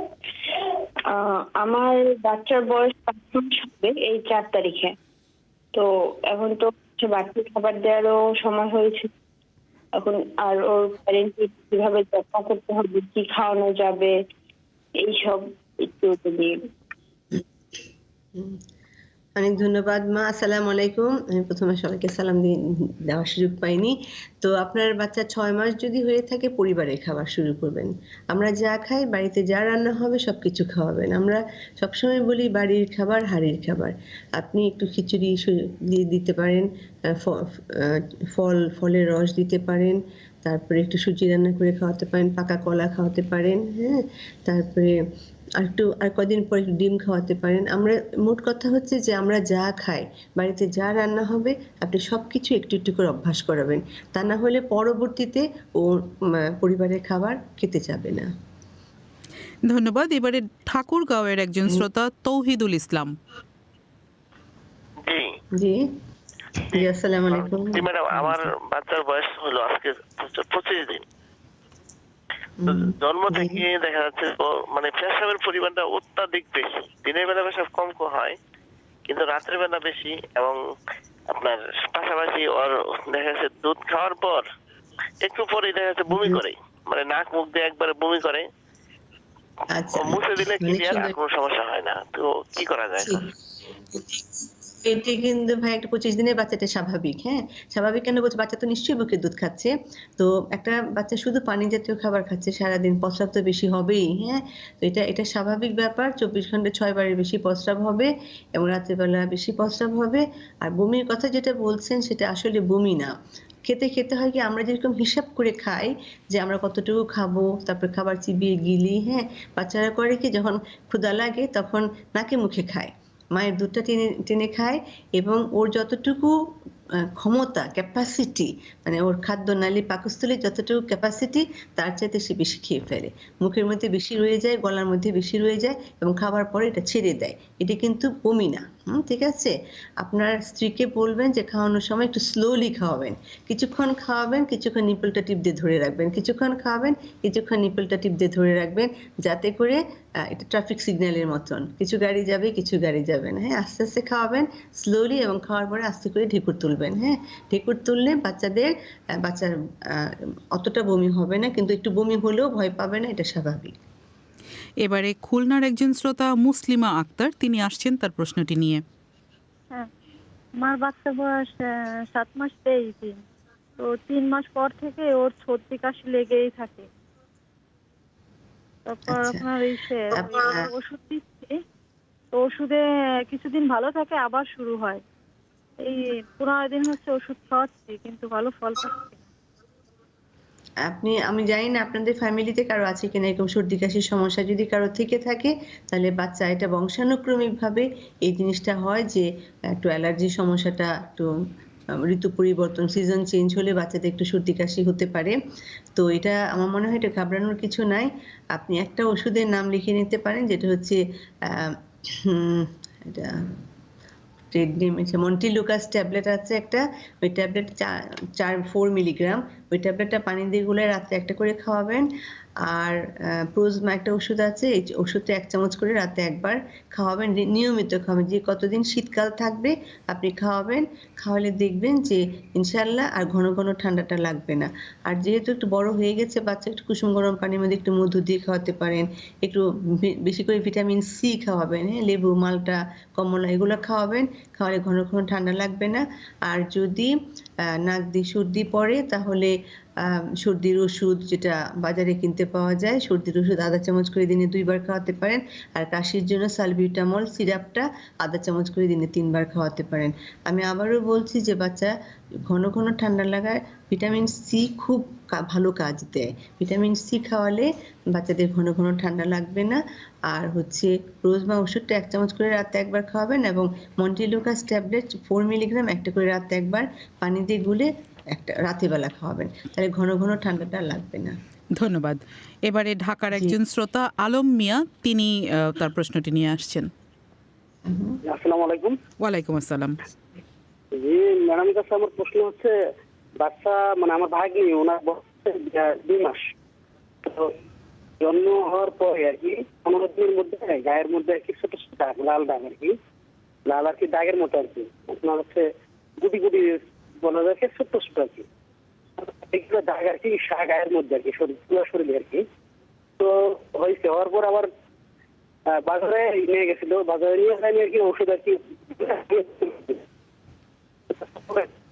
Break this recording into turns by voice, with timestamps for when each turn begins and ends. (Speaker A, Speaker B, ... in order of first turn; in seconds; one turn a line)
Speaker A: 1.1-4.9
Speaker A: 5.7-9.1
Speaker A: 10.0-14.1
Speaker A: 15.0-16.6
Speaker B: 19.4-45.0
Speaker B: 45.6-58.3
Speaker C: 59.6-63.1
Speaker D: 65.0-65.3
Speaker B: 65.6-65.9
Speaker B: 66.7-68.5
Speaker D: 66.7-71.0
Speaker B: 72.6-73.6
Speaker D: 72.7-78.4
Speaker D: 79.1-80.6
Speaker D: 81.3-84.5
Speaker D: 85.2-88.5
Speaker B: 86.1-86.4
Speaker B: 89.7-91.1
Speaker D: 89.9-93.2
Speaker B: 93.9-113.1
Speaker B: 113.7-126.3
Speaker B: 127.2-163.8
Speaker C: 164.8-168.8
Speaker E: 170.6-173.2
Speaker E: 173.8-176.9
Speaker E: 178.9-181.6
Speaker B: 179.1-179.4
Speaker B: 180.1-180.7
Speaker E: 182.3-185.0
Speaker E: 185.8-189.2
Speaker B: 190.9-201.3
Speaker B: 202.0-205.4
Speaker B: 206.0-213.6
Speaker B: 214.5-222.1
Speaker B: 222.6-247.1
Speaker B: 247.7-261.9
Speaker B: 262.4-281.4
Speaker C: 281.8-286.9
Speaker B: 287.9-288.2
Speaker F: 288.2-289.0
Speaker C: 289.2-290.0
Speaker F: 290.9-292.8
Speaker F: 293.4-296.5
Speaker F: 297.2-297.5
Speaker F: 298.2-303.0
Speaker F: 303.7-308.5
Speaker F: 309.4-312.5
Speaker F: 313.2-314.7
Speaker F: 315.7-320.0
Speaker F: 321.2-321.7